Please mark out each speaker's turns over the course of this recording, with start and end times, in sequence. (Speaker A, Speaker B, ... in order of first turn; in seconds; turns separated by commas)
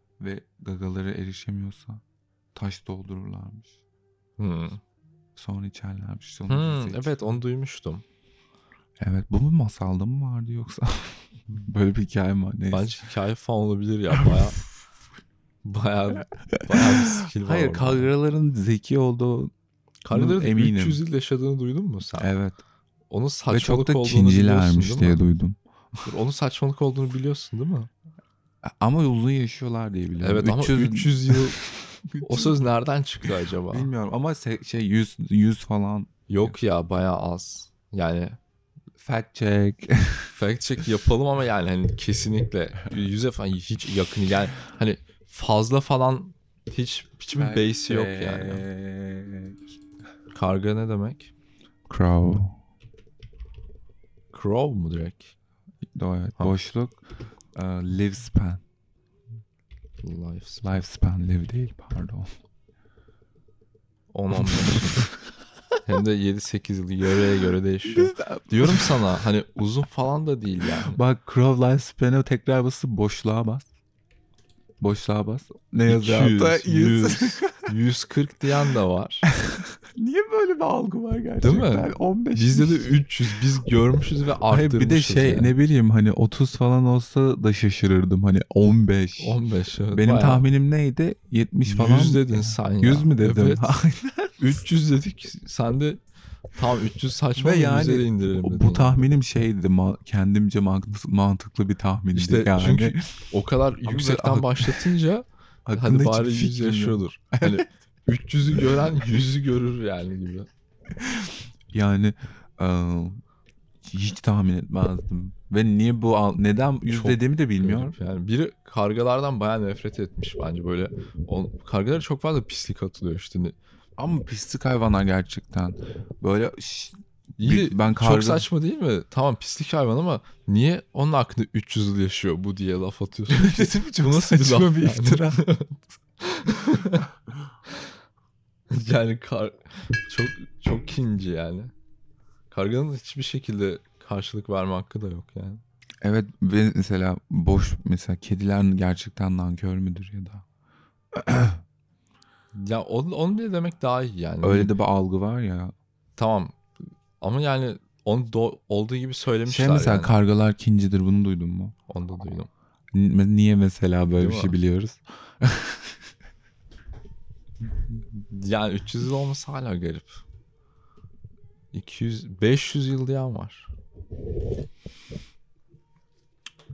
Speaker A: 0.2-2.0, Speaker A: 2.5-3.8, Speaker B: 4.4-4.8, Speaker A: 5.3-7.1, Speaker B: 6.5-8.0, Speaker A: 9.0-13.1, Speaker B: 12.7-14.6, Speaker A: 14.1-14.4, Speaker B: 15.6-18.1, Speaker A: 16.5-19.5, Speaker B: 20.0-22.3, Speaker A: 20.1-21.0, Speaker A: 22.2-22.6, Speaker B: 23.1-25.2, Speaker A: 23.5-25.6, Speaker B: 26.0-27.9, Speaker A: 28.6-32.6, Speaker B: 30.2-31.6, Speaker B: 32.2-33.9, Speaker A: 33.7-36.5, Speaker B: 36.3-38.4, Speaker A: 39.0-40.3, Speaker B: 40.3-48.6, Speaker A: 47.4-49.5, Speaker B: 50.3-51.3, Speaker A: 51.9-52.6, Speaker B: 54.3-55.3, Speaker A: 55.9-57.0, Speaker A: 57.5-58.6, Speaker B: 60.0-60.7, Speaker A: 60.6-62.3, Speaker B: 64.1-65.0, Speaker A: 64.3-65.2, Speaker B: 65.8-71.0, Speaker A: 67.8-69.2, Speaker A: 70.8-73.7, Speaker A: 74.8-77.7, Speaker B: 75.9-79.3, Speaker A: 79.3-82.9, Speaker B: 81.4-85.5, Speaker A: 84.5-89.4, Speaker B: 89.2-90.5, Speaker A: 89.9-94.5, Speaker B: 91.7-93.6, Speaker B: 94.4-96.0, Speaker B: 96.5-99.0, Speaker A: 97.3-103.2, Speaker B: 102.1-110.5, Speaker A: 103.8-105.0, Speaker A: 105.7-107.7, Speaker A: 108.6-108.8, Speaker A: 111.0-113.2, Speaker A: 113.8-117.9, Speaker B: 116.9-123.5, Speaker A: 124.0-128.5, Speaker B: 127.4-137.1, Speaker A: 133.3-135.5, Speaker B: 138.7-141.7, Speaker B: 142.5-145.6, Speaker A: 146.0-150.4, Speaker A: 151.1-151.6, Speaker B: 152.5-154.7, Speaker A: 154.4-155.7, Speaker B: 156.2-156.6, Speaker B: 157.2-160.2, Speaker A: 159.5-161.7, Speaker B: 161.9-162.5, Speaker A: 162.9-166.0, Speaker B: 164.2-164.5, Speaker B: 168.3-170.2, Speaker B: 171.7-173.7